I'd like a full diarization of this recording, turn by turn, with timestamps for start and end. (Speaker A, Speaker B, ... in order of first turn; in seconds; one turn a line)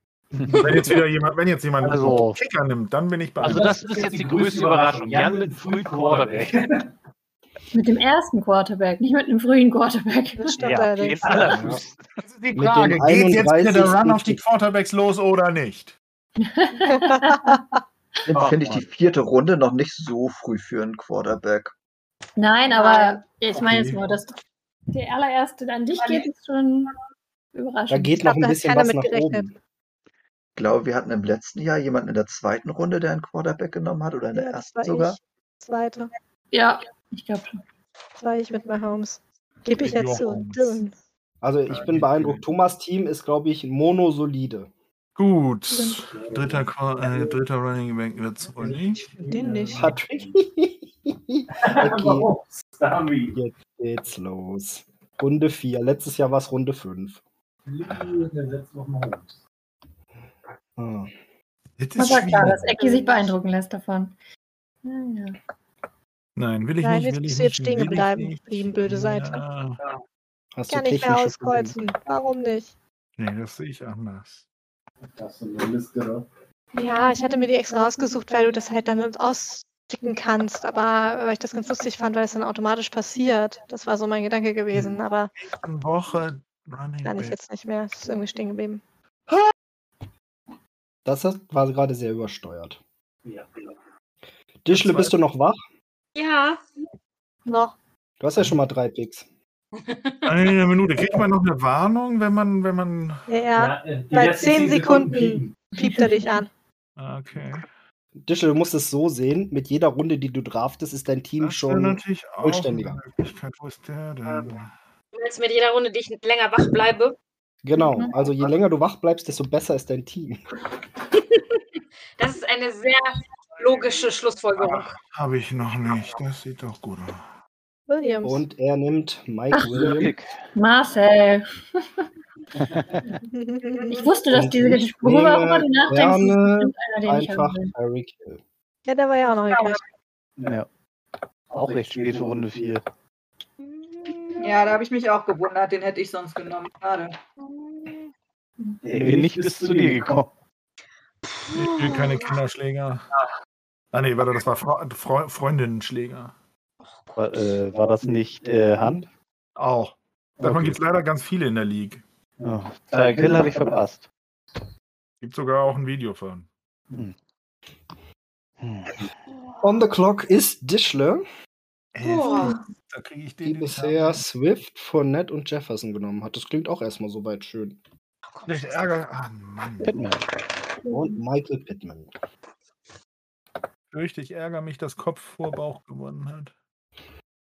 Speaker A: 0.4-1.0
Speaker B: 0.6-3.8
Speaker A: 1.8-2.4
Speaker A: 3.4-6.6
Speaker C: 3.5-5.4
Speaker C: 6.1-6.4
Speaker D: 7.7-10.5
Speaker E: 10.4-11.6
Speaker A: 10.6-12.0
Speaker F: 11.5-11.8
Speaker B: 12.2-15.9
Speaker F: 12.5-14.4
Speaker D: 16.4-17.5
Speaker E: 17.0-17.6
Speaker G: 18.3-21.7
Speaker A: 18.3-18.8
Speaker D: 22.4-24.4
Speaker B: 23.5-24.0
Speaker D: 24.9-26.9
Speaker D: 27.5-28.3
Speaker F: 27.9-29.5
Speaker E: 28.2-29.5
Speaker G: 30.6-35.2
Speaker E: 34.3-36.1
Speaker D: 36.5-37.6
Speaker E: 38.2-40.9
Speaker B: 39.8-40.8
Speaker F: 41.4-44.7
Speaker B: 41.7-42.4
Speaker B: 45.1-49.1
Speaker E: 45.7-46.0
Speaker C: 46.1-47.4
Speaker C: 48.5-50.3
Speaker E: 49.3-49.9
Speaker F: 49.7-52.3
Speaker C: 51.6-53.4
Speaker F: 53.3-57.2
Speaker C: 57.7-59.4
Speaker F: 60.8-61.1
Speaker B: 61.8-62.7
Speaker D: 62.0-64.2
Speaker E: 62.8-63.3
Speaker D: 64.8-65.4
Speaker B: 66.3-69.8
Speaker E: 66.8-69.4
Speaker F: 70.5-71.8
Speaker E: 70.7-72.7
Speaker B: 73.2-74.4
Speaker C: 75.1-76.2
Speaker E: 76.7-85.3
Speaker B: 85.5-87.4
Speaker E: 87.0-88.8
Speaker F: 91.0-92.8
Speaker F: 94.6-95.6
Speaker B: 94.7-95.1
Speaker H: 96.1-96.6
Speaker E: 97.5-97.7
Speaker F: 98.2-99.2
Speaker H: 99.9-100.2
Speaker B: 100.2-103.2
Speaker E: 103.3-106.5
Speaker C: 103.5-105.6
Speaker B: 107.0-107.7
Speaker F: 108.2-113.0
Speaker B: 111.4-114.7
Speaker H: 115.1-117.2
Speaker F: 117.6-120.4
Speaker H: 122.2-124.9
Speaker B: 124.6-127.2
Speaker E: 127.9-128.4
Speaker F: 128.2-130.1
Speaker A: 129.7-130.3
Speaker D: 130.5-132.0
Speaker E: 133.3-134.2
Speaker D: 133.9-137.7
Speaker F: 134.3-138.4
Speaker E: 138.8-139.8
Speaker A: 140.4-140.7
Speaker A: 141.5-142.8
Speaker C: 141.6-142.2
Speaker E: 143.9-144.3
Speaker I: 144.4-147.2
Speaker C: 148.8-149.7
Speaker A: 148.8-150.3
Speaker B: 151.5-153.1
Speaker B: 153.9-156.3
Speaker A: 157.1-159.1
Speaker B: 159.6-162.0
Speaker A: 160.4-160.8
Speaker A: 162.4-164.1
Speaker B: 165.2-166.4
Speaker A: 168.6-169.1
Speaker F: 169.6-171.2
Speaker B: 171.9-174.2
Speaker H: 172.1-172.5
Speaker F: 173.4-177.8
Speaker H: 178.3-178.8
Speaker B: 178.4-180.1
Speaker A: 179.8-180.2
Speaker F: 180.9-182.1
Speaker B: 183.9-186.5